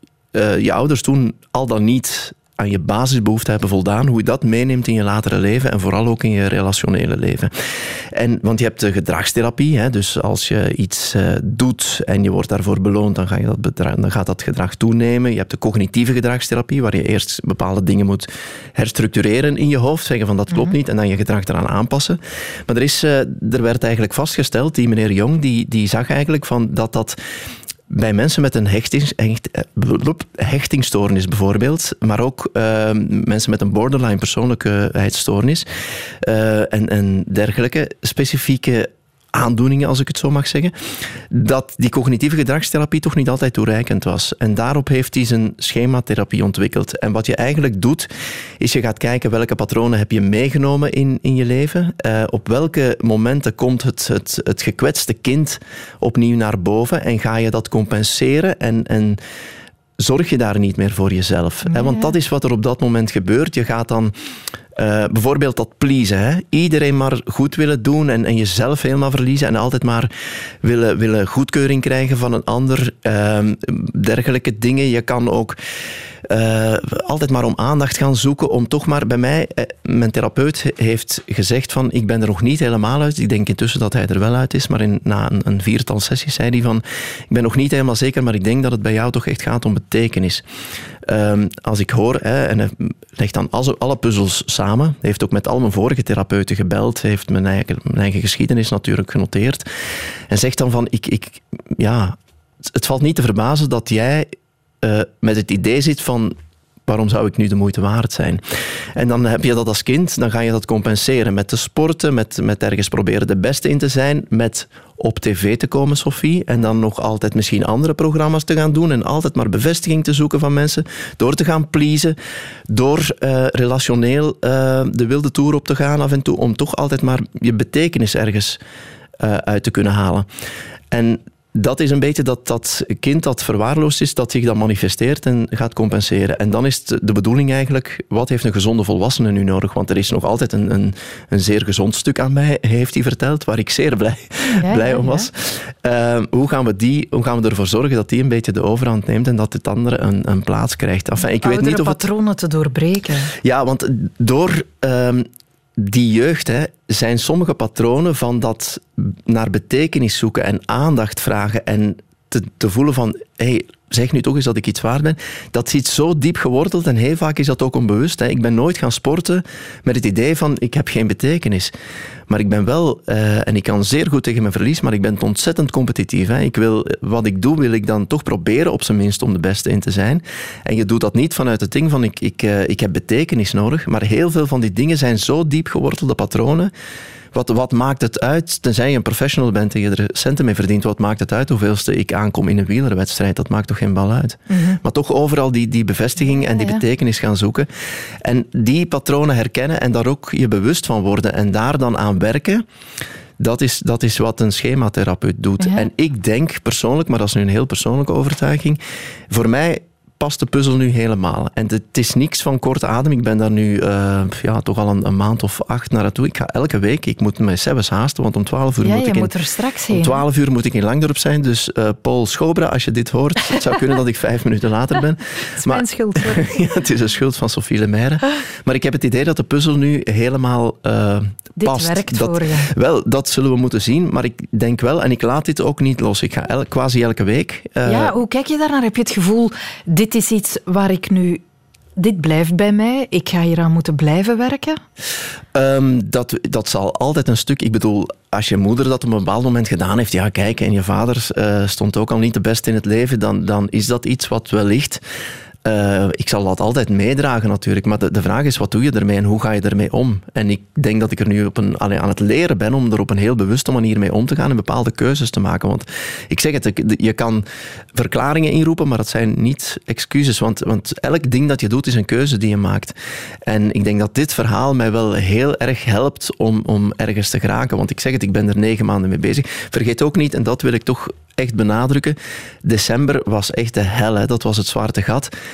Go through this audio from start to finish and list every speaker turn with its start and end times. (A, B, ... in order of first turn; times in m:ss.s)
0:00.3-0:27.2 A
0:27.9-0:35.7 A
0:36.2-0:40.7 A
0:41.3-0:48.1 A
0:48.6-0:59.2 A
1:00.0-1:04.1 A
1:01.7-1:02.1 B
1:04.8-1:10.1 A
1:10.6-1:15.6 A
1:16.2-1:30.4 A
1:31.0-1:39.7 A
1:40.3-1:48.4 A
1:49.0-2:02.2 A
2:02.7-2:08.6 A
2:09.2-2:10.3 A
2:10.9-2:32.1 A
2:24.4-2:25.3 B
2:31.4-2:33.3 B
2:33.4-2:51.7 A
2:52.3-3:06.7 A
3:07.3-3:17.7 A
3:14.5-3:14.8 B
3:16.5-3:16.8 B
3:18.2-3:22.6 A
3:23.4-3:39.3 A
3:25.6-3:25.9 B
3:38.8-3:40.2 B
3:39.9-3:58.2 A
3:45.5-3:46.6 B
3:51.6-3:52.7 B
3:57.8-4:01.4 B
4:02.0-4:04.8 B
4:05.5-4:15.0 A
4:15.6-4:45.3 A